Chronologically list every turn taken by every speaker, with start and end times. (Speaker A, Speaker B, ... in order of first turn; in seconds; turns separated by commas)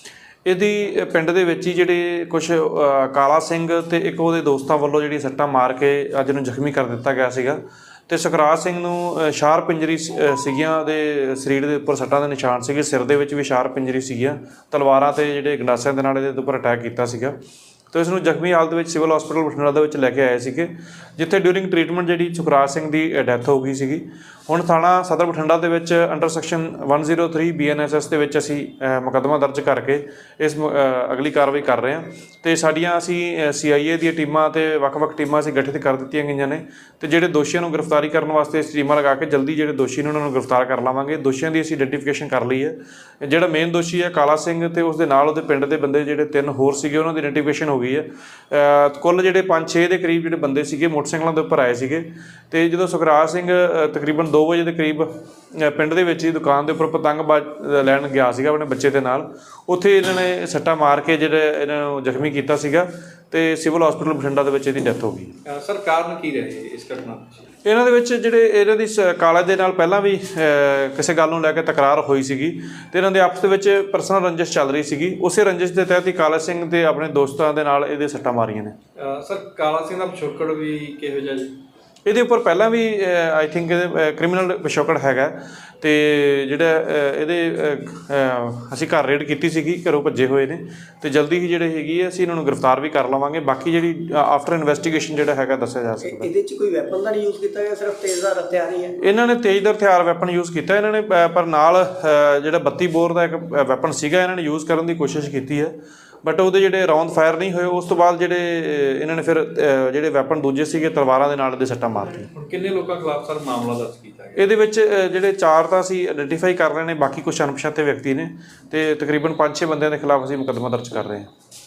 Speaker A: 0.5-17.4, Speaker A: 17.9-65.3, Speaker B: 65.5-67.5, Speaker A: 67.6-78.8, Speaker B: 79.0-81.6, Speaker A: 82.0-96.3, Speaker C: 96.0-99.0, Speaker A: 99.0-112.3, Speaker B: 112.3-114.5, Speaker A: 114.4-121.3